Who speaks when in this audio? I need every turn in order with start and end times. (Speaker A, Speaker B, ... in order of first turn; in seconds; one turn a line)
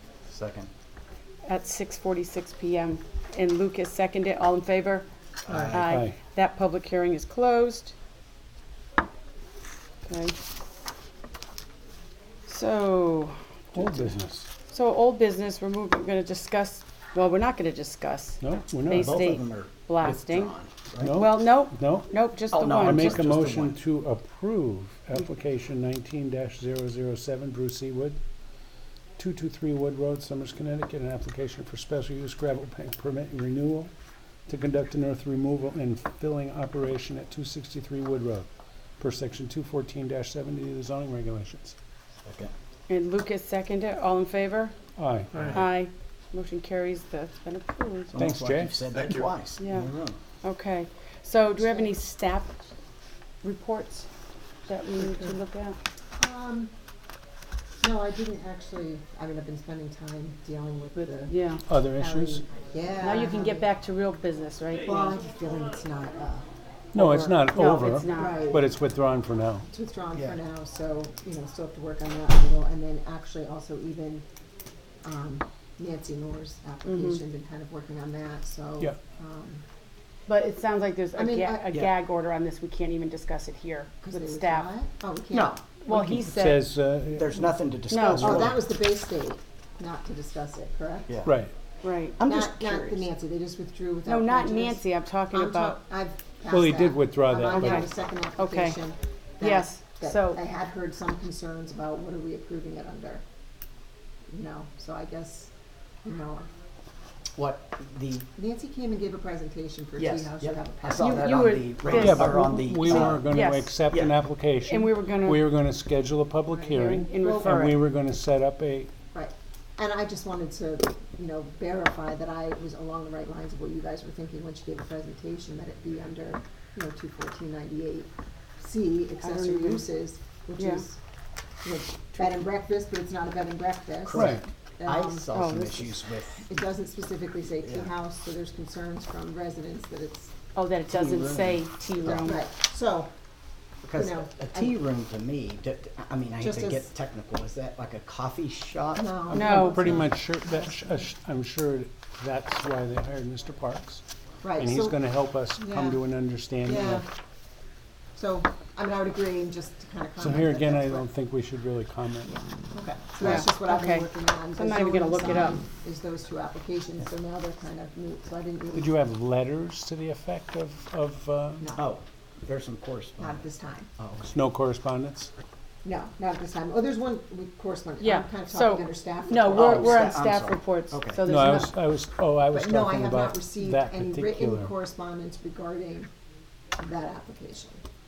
Speaker A: 0.3-0.7
Speaker B: 1.5-5.1
Speaker A: 5.5-5.8
Speaker B: 5.7-7.9
Speaker C: 5.7-6.2
Speaker B: 10.1-10.3
Speaker B: 12.5-14.1
Speaker C: 13.8-14.5
Speaker B: 14.7-20.6
Speaker C: 18.4-19.1
Speaker A: 18.9-21.2
Speaker C: 21.0-22.1
Speaker B: 21.1-23.2
Speaker A: 22.5-23.8
Speaker C: 22.7-28.2
Speaker C: 29.2-33.9
Speaker C: 34.5-38.5
Speaker C: 39.0-41.8
Speaker A: 42.3-42.5
Speaker B: 42.9-44.8
Speaker C: 45.0-45.5
Speaker A: 45.4-45.6
Speaker B: 45.5-48.1
Speaker A: 48.1-50.2
Speaker C: 48.1-48.8
Speaker B: 49.6-49.9
Speaker B: 50.4-52.5
Speaker D: 51.6-51.9
Speaker B: 53.4-54.1
Speaker B: 54.7-55.8
Speaker D: 55.0-55.4
Speaker D: 56.2-56.7
Speaker D: 57.8-61.4
Speaker B: 61.3-61.6
Speaker C: 61.7-62.4
Speaker D: 62.0-63.7
Speaker B: 63.0-65.2
Speaker D: 64.8-66.5
Speaker C: 66.9-69.7
Speaker B: 67.0-68.5
Speaker D: 67.0-68.7
Speaker D: 69.7-74.2
Speaker D: 75.0-79.6
Speaker B: 76.8-77.2
Speaker B: 80.3-84.7
Speaker D: 81.2-81.7
Speaker D: 84.0-85.6
Speaker A: 85.3-85.6
Speaker B: 85.8-86.7
Speaker C: 85.9-87.3
Speaker A: 87.2-88.6
Speaker B: 87.9-88.4
Speaker D: 88.0-91.2
Speaker A: 91.1-91.4
Speaker C: 91.2-91.5
Speaker B: 91.8-92.2
Speaker A: 92.2-93.0
Speaker D: 92.2-103.2
Speaker B: 94.1-95.8
Speaker C: 96.5-97.9
Speaker B: 97.4-97.9
Speaker B: 98.4-98.8
Speaker B: 99.4-100.4
Speaker D: 104.3-105.5
Speaker D: 106.0-106.5
Speaker A: 107.4-108.3
Speaker D: 108.4-111.5
Speaker A: 110.0-113.3
Speaker B: 111.0-113.8
Speaker C: 111.9-118.9
Speaker A: 113.9-114.2
Speaker B: 114.7-115.4
Speaker D: 116.5-117.8
Speaker B: 116.7-117.8
Speaker D: 119.1-131.0
Speaker B: 129.2-129.8
Speaker D: 131.6-140.3
Speaker A: 134.1-136.4
Speaker C: 134.1-134.4
Speaker B: 135.3-135.9
Speaker A: 137.7-137.9
Speaker B: 140.6-142.4
Speaker A: 140.9-142.3
Speaker D: 142.1-143.1
Speaker A: 143.8-149.2
Speaker D: 143.9-144.7
Speaker D: 146.4-146.9
Speaker D: 148.9-151.1
Speaker C: 149.3-154.0
Speaker B: 149.3-149.9
Speaker D: 154.4-155.0
Speaker C: 154.6-157.1
Speaker D: 155.6-156.0
Speaker D: 156.6-157.1
Speaker D: 158.2-161.1
Speaker C: 160.2-162.4
Speaker D: 162.7-168.9
Speaker B: 163.2-165.6
Speaker C: 168.8-171.7
Speaker D: 171.6-171.9
Speaker A: 171.8-173.4
Speaker D: 173.2-173.9
Speaker A: 174.0-174.3
Speaker C: 174.3-175.3
Speaker D: 175.8-180.2
Speaker B: 178.0-181.7
Speaker A: 179.5-181.2
Speaker C: 181.2-184.7
Speaker D: 182.5-186.1
Speaker D: 186.8-187.8